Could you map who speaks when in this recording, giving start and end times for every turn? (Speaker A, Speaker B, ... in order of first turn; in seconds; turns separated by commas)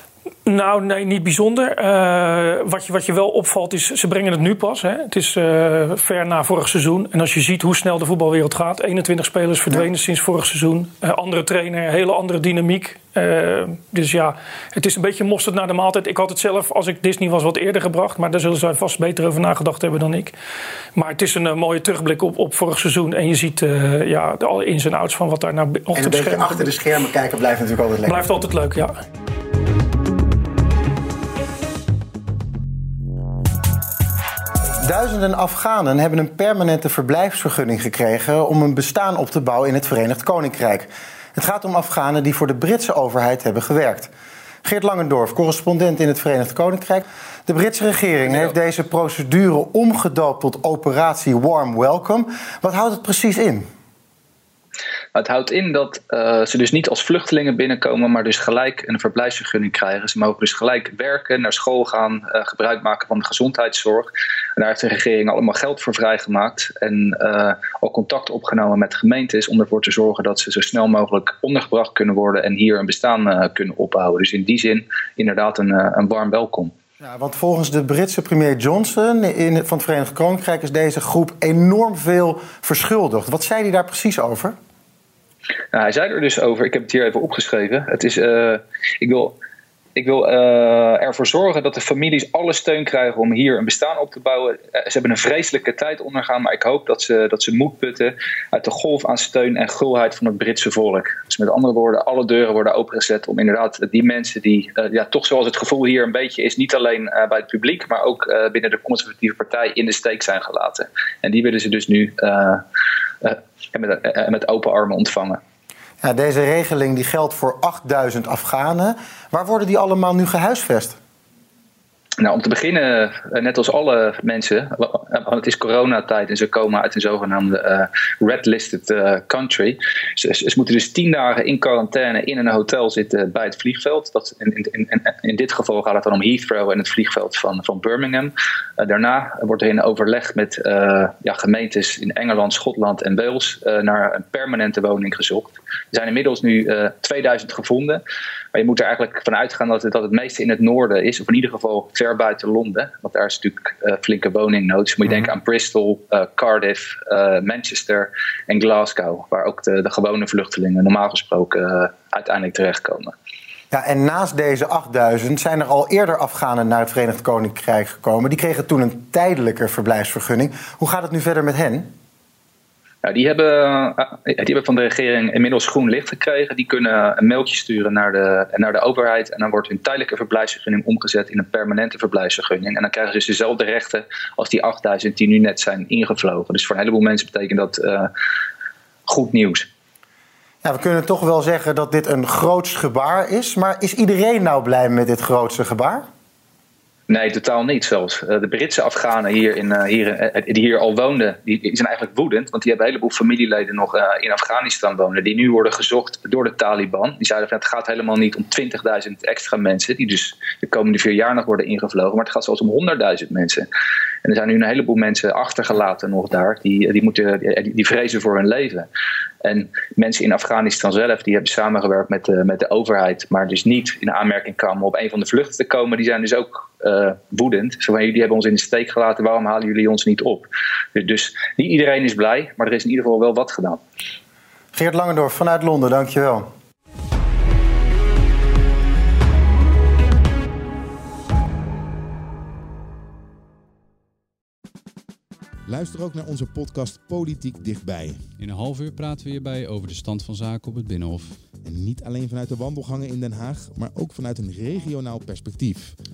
Speaker A: 0.5-20.3, Speaker A: 20.9-26.7, Speaker B: 25.9-28.2, Speaker A: 28.1-29.0, Speaker B: 34.8-44.1, Speaker B: 44.6-53.7, Speaker C: 55.1-76.7, Speaker B: 77.0-84.5, Speaker C: 85.7-89.3, Speaker C: 90.0-112.6, Speaker C: 113.2-115.4, Speaker B: 116.0-121.0, Speaker C: 122.2-148.0, Speaker C: 148.6-163.1, Speaker B: 163.7-171.9, Speaker C: 173.0-188.1, Speaker C: 189.1-189.7, Speaker B: 190.6-196.1, Speaker C: 197.1-213.7, Speaker C: 214.2-218.9, Speaker C: 219.4-233.8, Speaker B: 234.7-236.4, Speaker D: 245.7-248.3, Speaker E: 248.4-251.6, Speaker D: 251.6-256.0